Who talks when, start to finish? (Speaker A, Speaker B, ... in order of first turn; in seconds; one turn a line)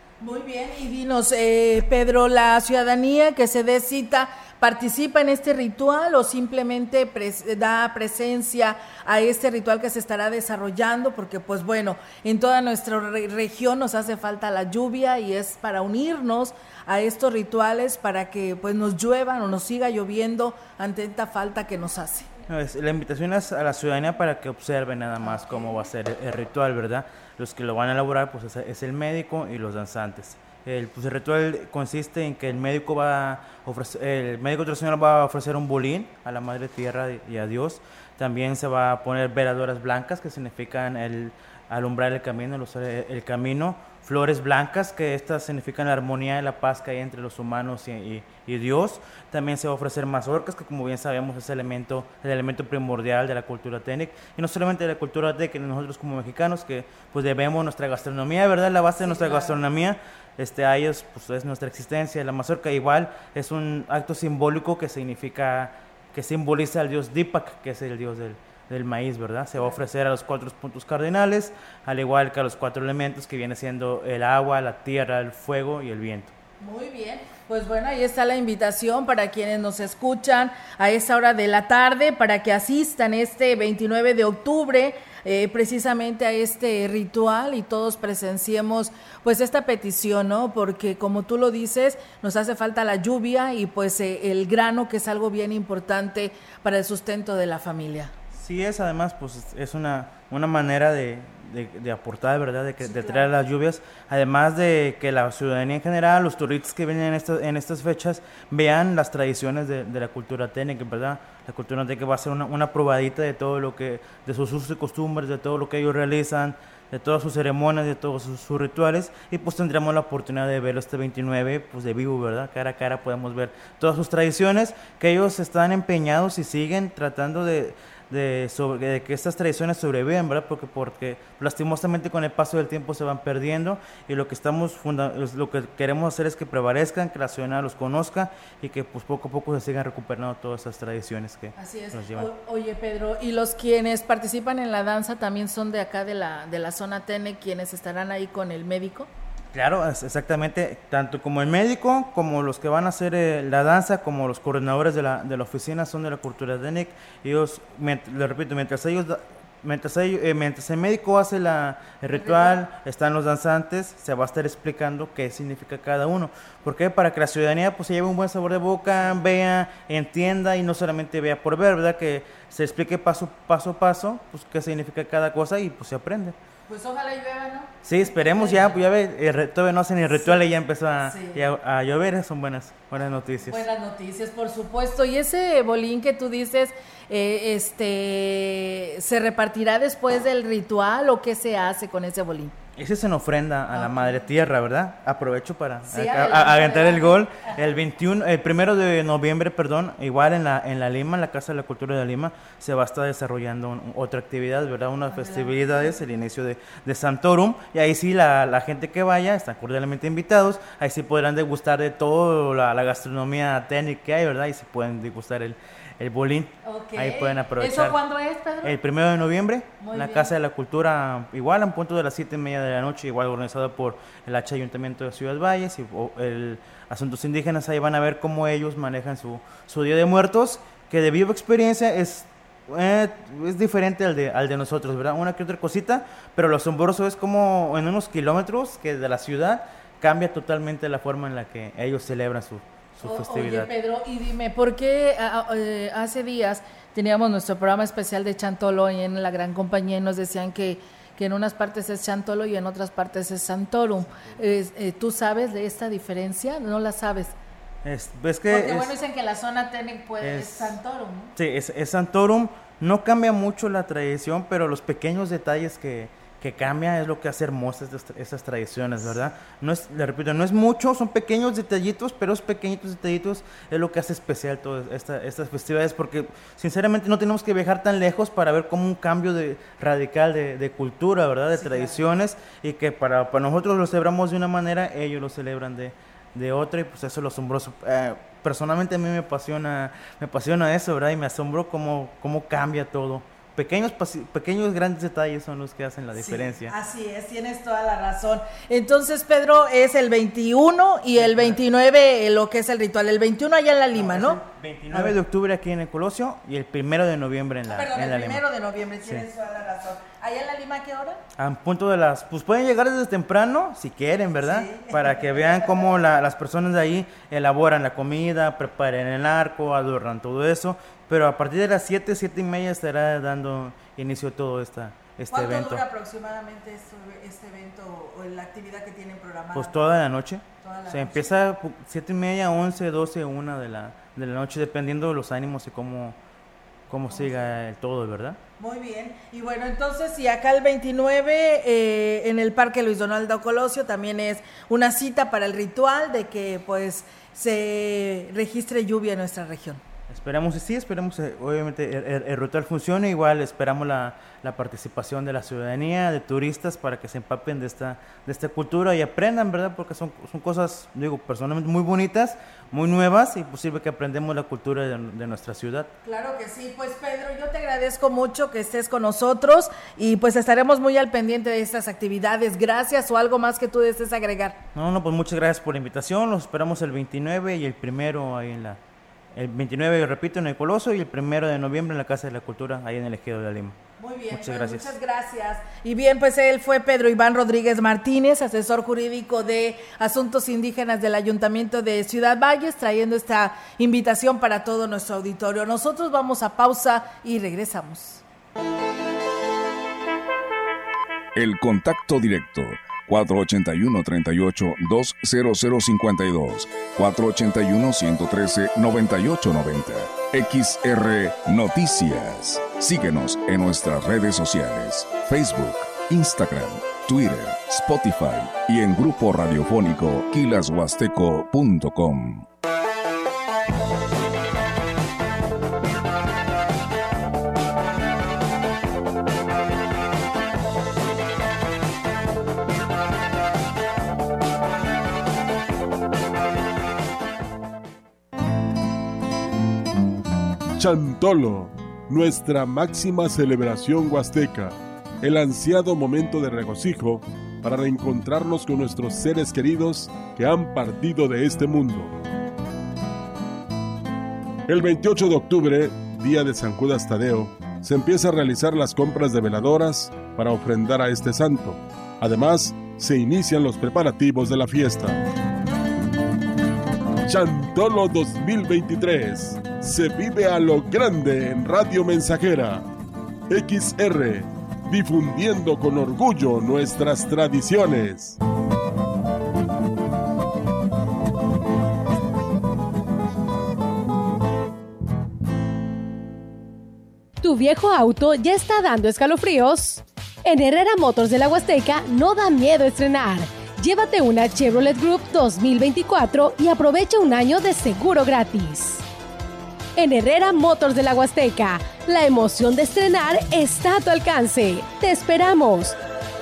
Speaker A: 0.2-22.3
Speaker B: 22.5-76.3
Speaker A: 25.2-25.7
Speaker A: 59.0-59.6
Speaker A: 69.6-69.8
Speaker A: 76.6-98.1
Speaker B: 98.3-142.3
Speaker A: 102.8-103.3
Speaker A: 141.6-149.1
Speaker B: 149.5-176.4
Speaker A: 162.1-162.6
Speaker A: 176.7-178.8
Speaker B: 177.8-183.7
Speaker A: 180.1-180.4
Speaker A: 181.0-181.4
Speaker A: 183.5-192.5
Speaker B: 192.8-218.0
Speaker A: 193.7-194.3
Speaker A: 195.9-197.5
Speaker A: 205.1-206.0
Speaker A: 216.7-218.8
Speaker B: 218.6-243.7
Speaker A: 219.8-220.3
Speaker A: 243.0-257.4
Speaker B: 257.9-258.9
Speaker A: 258.5-261.3
Speaker B: 260.2-260.8
Speaker B: 261.4-296.7
Speaker A: 281.6-282.0
Speaker A: 296.1-304.4
Speaker B: 301.1-301.6
Speaker B: 303.9-308.4
Speaker A: 304.9-305.2
Speaker A: 307.7-311.2
Speaker B: 311.4-325.8
Speaker A: 314.4-315.9
Speaker A: 325.3-329.8
Speaker B: 329.5-336.2
Speaker A: 330.6-331.3
Speaker B: 336.9-338.4
Speaker A: 337.1-337.5
Speaker A: 338.6-349.8
Speaker B: 350.1-365.9
Speaker A: 366.0-374.6
Speaker B: 374.8-378.8
Speaker B: 379.3-383.8
Speaker A: 384.0-398.2
Speaker B: 384.3-385.0
Speaker C: 401.4-422.5
Speaker D: 440.8-452.1
Speaker D: 454.7-465.2
Speaker D: 467.3-472.9
Speaker D: 473.5-478.4
Speaker E: 487.4-499.0
Speaker E: 500.0-506.0